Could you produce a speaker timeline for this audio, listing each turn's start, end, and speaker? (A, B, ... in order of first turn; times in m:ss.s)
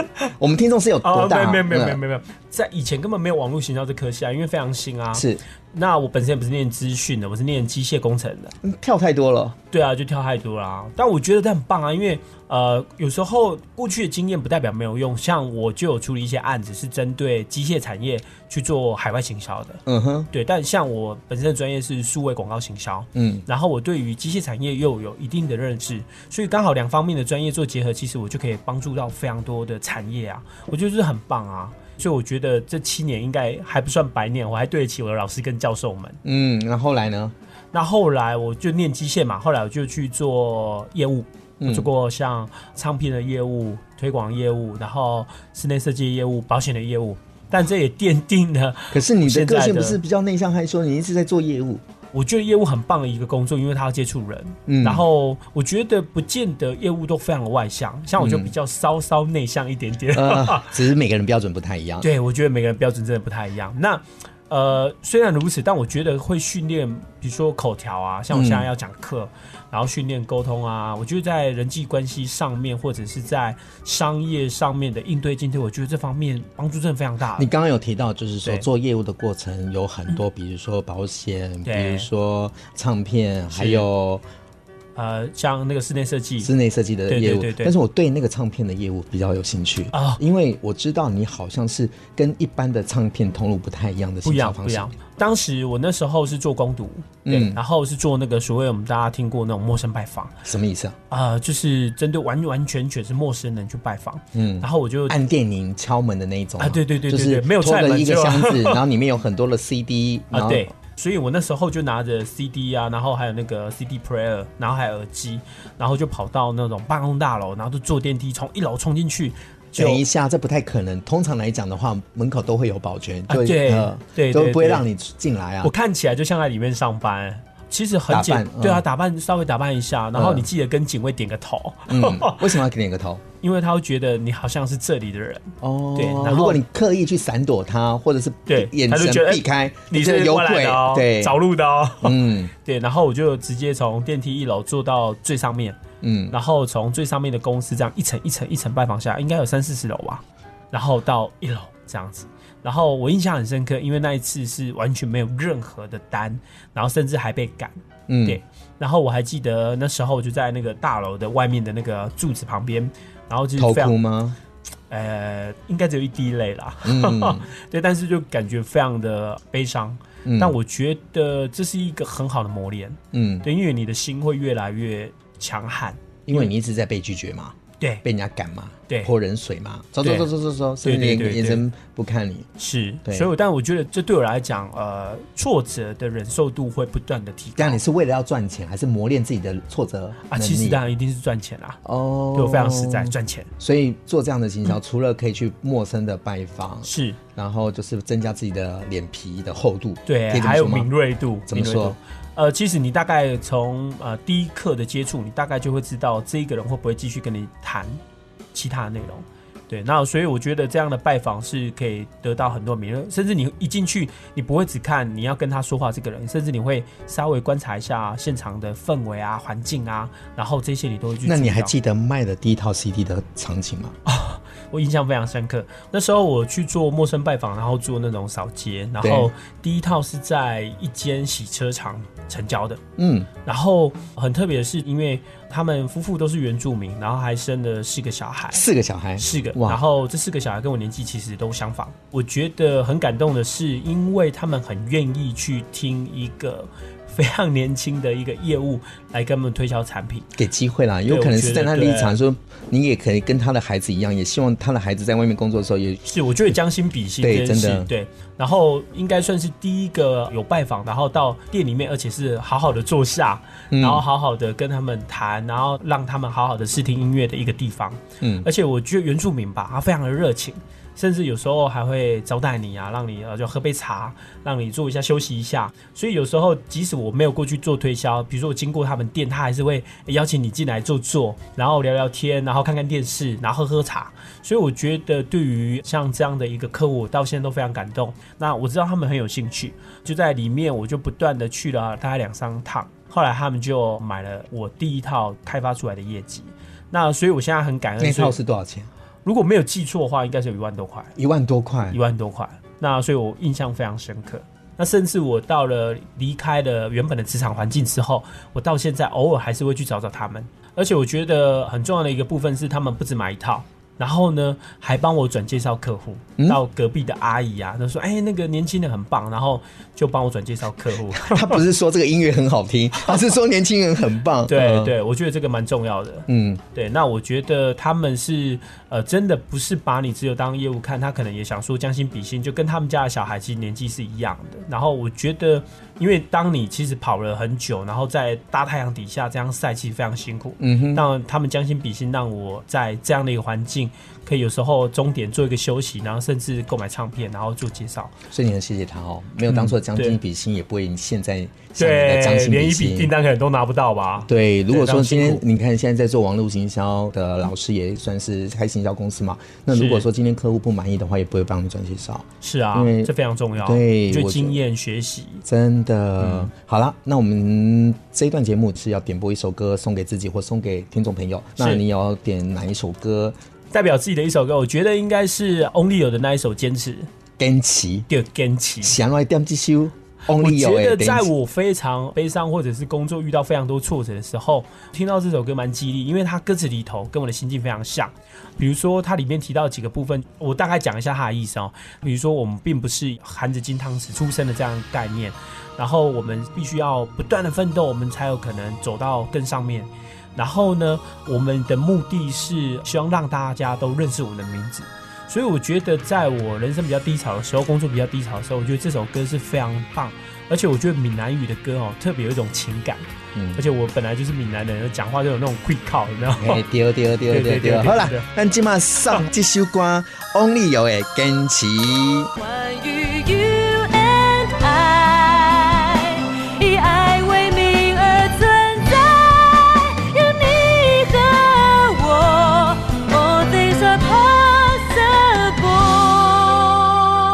0:00.4-0:02.0 A
0:01.0-0:08.5 B
0:05.1-0:05.4 A
0:08.6-0:09.6 A
0:09.7-0:36.2 B
0:19.9-0:20.3 A
0:23.1-0:23.4 A
0:36.2-0:37.3 A
0:37.7-0:50.0 B
0:41.6-0:41.9 A
0:48.9-0:51.8 A
0:52.1-1:00.8 B
0:54.7-0:55.0 A
0:58.2-0:58.5 A
1:00.1-1:02.1 A
1:02.0-1:17.5 B
1:08.3-1:08.7 A
1:17.4-1:24.2 A
1:21.6-1:22.0 B
1:23.5-1:23.8 B
1:24.9-1:26.5 B
1:26.4-1:34.9 A
1:27.1-1:27.7 B
1:29.9-1:30.2 B
1:34.2-1:40.4 B
1:37.2-1:37.6 A
1:40.4-1:41.0 A
1:41.1-1:45.2 B
1:44.3-1:50.7 A
1:46.6-1:48.8 B
1:50.3-2:00.0 B
1:59.7-2:05.7 A
2:03.3-2:04.8 B
2:05.6-2:12.5 B
2:08.1-2:08.8 A
2:10.1-2:10.5 A
2:11.9-2:13.2 A
2:13.4-2:16.6 B
2:15.6-2:21.4 A
2:18.5-2:44.0 B
2:22.0-2:22.5 A
2:26.0-2:26.3 A
2:38.1-2:38.4 A
2:43.6-2:44.4 A
2:44.9-2:56.5 B
2:46.8-2:47.5 A
2:50.2-2:50.6 A
2:53.1-2:53.4 A
2:56.2-3:02.5 A
3:00.0-3:00.3 B
3:00.8-3:01.6 B
3:02.6-3:07.8 B
3:03.0-3:03.3 A
3:07.6-3:10.8 A
3:10.3-3:11.8 B
3:11.8-3:20.9 A
3:12.3-3:13.5 B
3:16.8-3:17.2 B
3:20.1-3:28.0 B
3:21.5-3:22.0 A
3:28.5-3:41.7 B
3:41.2-3:43.9 A
3:44.0-3:52.8 B
3:49.0-3:49.3 A
3:53.0-3:53.3 A
3:53.4-3:58.6 B
3:58.5-3:59.8 A
3:59.2-4:10.3 B
4:10.3-4:16.0 A
4:11.1-4:12.2 B
4:16.0-4:58.4 B
4:17.2-4:17.9 A
4:23.7-4:24.0 A
4:28.2-4:28.4 A
4:58.0-4:58.9 A
4:59.2-5:01.1 B
5:01.2-5:02.0 A
5:01.9-5:21.6 B
5:21.2-5:24.9 A
5:24.5-5:48.1 B
5:26.3-5:26.6 A
5:40.6-5:41.0 A
5:48.3-5:53.1 A
5:49.4-5:50.2 B
5:51.8-5:55.4 B
5:54.3-6:04.6 A
5:59.7-6:00.1 B
6:02.4-6:05.4 B
6:05.4-6:13.3 A
6:06.2-6:06.5 B
6:13.7-6:17.1 B
6:17.4-6:18.1 A
6:18.1-6:19.0 B
6:18.8-6:21.3 A
6:20.3-6:56.6 B
6:53.3-6:53.6 A
6:56.4-7:02.3 A
6:57.3-6:58.3 B
7:02.4-7:16.8 C